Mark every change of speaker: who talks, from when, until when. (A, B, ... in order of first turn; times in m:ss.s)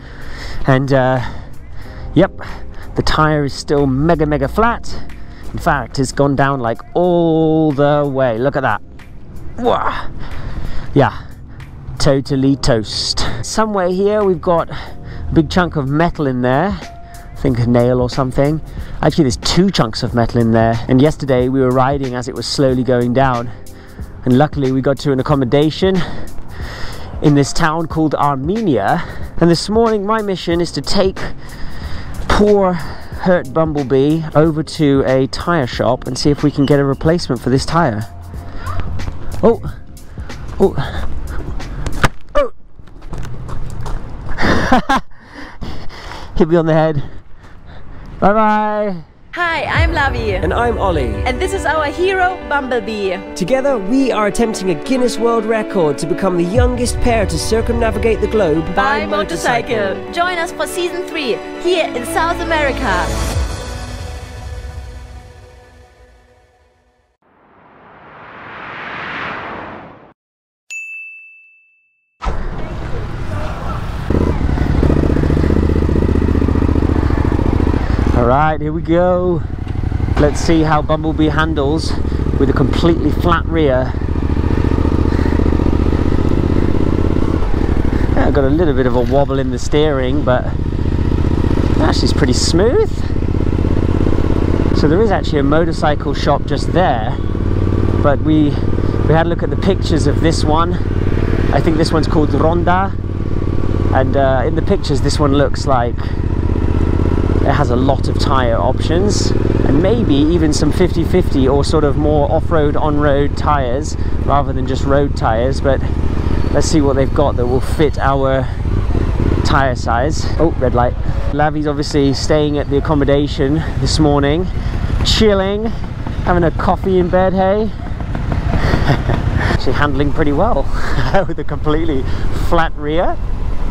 0:00.6-0:01.5 A
0:02.2-0:02.4 A
0:02.9-0:08.8 A
0:09.6-0:10.1 A
0:12.0-0:14.8 A
0:15.3-0:23.5 A
0:24.2-0:26.0 A
0:27.2-0:31.3 A
0:32.3-0:38.1 A
0:39.4-0:39.7 A
0:40.6-0:41.1 A
0:44.4-0:45.0 A
0:46.3-0:47.1 A
0:48.2-0:49.0 A
0:49.3-0:50.4 B
0:50.4-0:51.3 A
0:51.2-0:53.2 B
0:53.3-1:00.0 A
0:58.7-1:03.2 B
1:18.1-1:19.4 A
1:20.2-1:24.0 A
1:28.1-1:30.6 A
1:31.8-1:33.1 A
1:34.7-1:37.2 A
1:38.0-1:40.8 A
1:41.5-1:43.0 A
1:43.9-1:46.0 A
1:47.4-1:55.9 A
1:56.5-1:58.6 A
1:59.4-2:04.5 A
2:05.0-2:05.7 A
2:06.2-2:07.8 A
2:08.6-2:13.2 A